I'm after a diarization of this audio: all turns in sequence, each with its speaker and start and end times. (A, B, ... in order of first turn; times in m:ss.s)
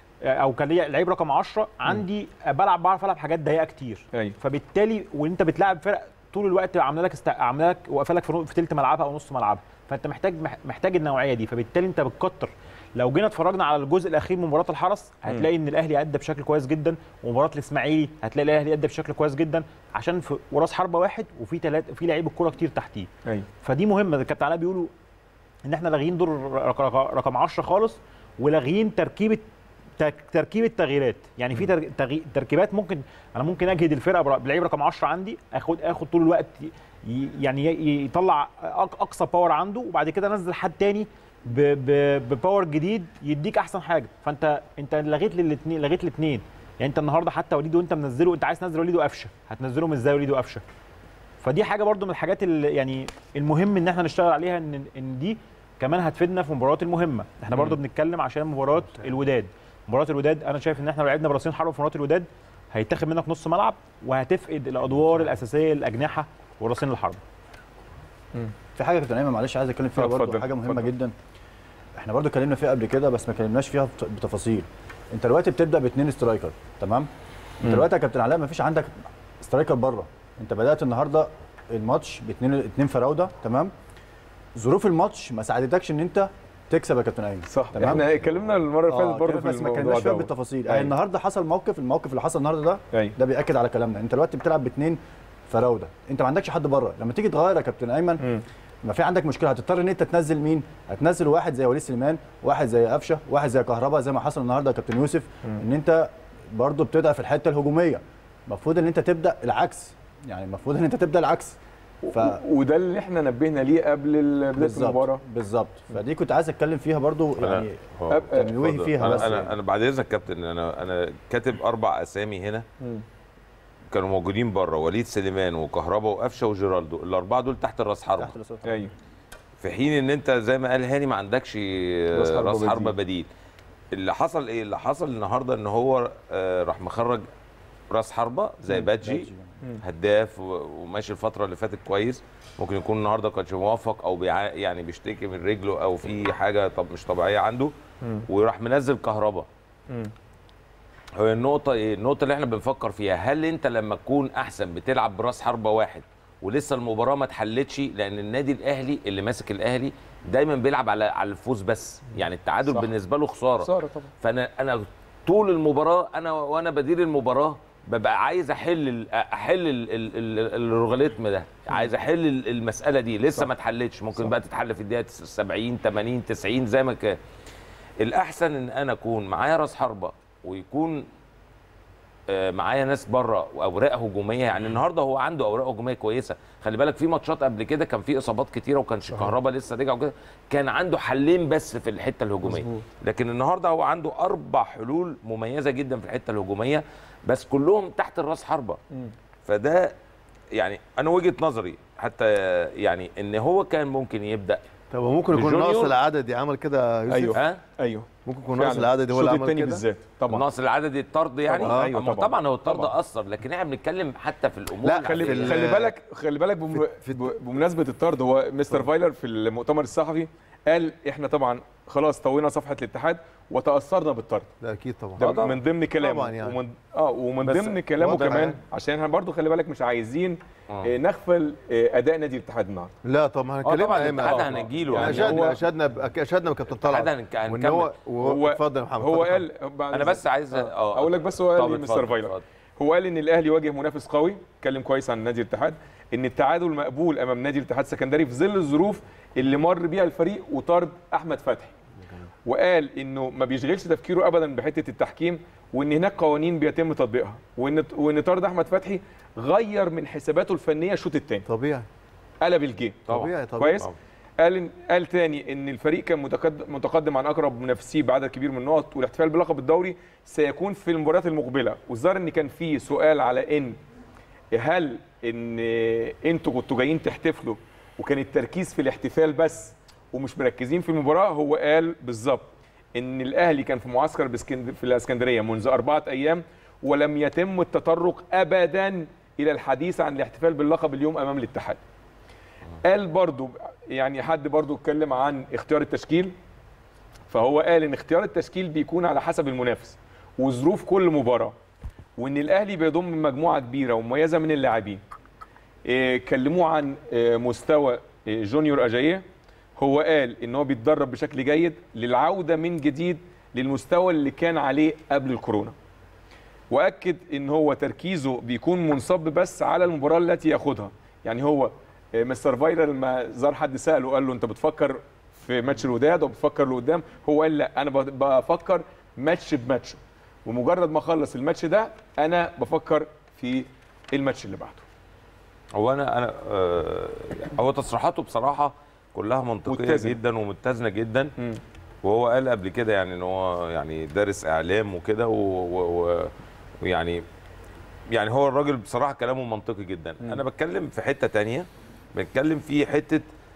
0:00.2-0:23.1 A
0:23.6-0:24.9 A
0:25.6-0:29.4 A
0:30.0-0:50.6 A
0:51.4-1:07.2 A
1:08.8-1:11.2 B
1:10.0-1:10.9 C
1:12.0-1:17.1 B
1:17.6-1:23.7 B
1:24.6-1:28.2 B
1:27.5-1:30.9 C
1:28.9-1:38.2 B
1:38.8-1:51.6 B
1:52.0-1:55.2 C
1:52.1-1:52.4 B
1:54.6-1:59.5 B
1:57.4-2:02.7 D
1:58.1-1:59.3 C
2:03.9-2:08.4 D
2:08.2-2:08.9 B
2:08.6-2:08.9 C
2:09.6-2:13.3 D
2:12.1-2:13.0 C
2:13.9-2:17.2 D
2:17.9-2:19.3 D
2:19.0-2:19.5 B
2:19.8-2:27.7 D
2:28.3-2:29.5 D
2:31.2-2:57.2 D
2:43.6-2:44.1 C
2:58.0-3:01.1 D
3:02.3-3:18.8 D
3:12.4-3:12.8 C
3:19.4-3:20.0 D
3:20.6-3:24.6 D
3:24.9-3:27.4 E
3:25.3-3:26.0 D
3:27.1-3:30.4 C
3:27.3-3:27.6 D
3:28.2-3:29.8 E
3:30.3-3:35.7 D
3:31.5-3:32.9 C
3:31.7-3:31.9 E
3:34.8-3:36.0 E
3:35.0-3:44.5 C
3:36.7-3:37.3 E
3:44.6-3:46.6 E
3:45.2-3:52.9 C
3:47.4-3:48.6 E
3:50.7-3:50.9 D
3:53.0-3:59.5 E
3:53.6-3:55.6 D
3:54.1-3:55.6 C
3:56.7-3:57.9 D
3:58.2-4:11.7 C
3:59.9-4:02.4 D
4:12.5-4:21.5 C
4:21.5-4:21.9 E
4:22.4-4:23.9 C
4:23.1-4:23.8 E
4:24.4-4:33.8 C
4:34.5-4:51.8 C
4:52.8-4:56.3 C
4:57.3-5:01.6 C
5:02.2-5:05.0 C
5:05.8-5:09.2 C
5:09.8-5:15.7 C
5:16.7-5:34.8 C
5:35.8-5:41.3 D
5:39.7-5:40.2 C
5:42.0-5:47.2 D
5:48.1-5:53.2 D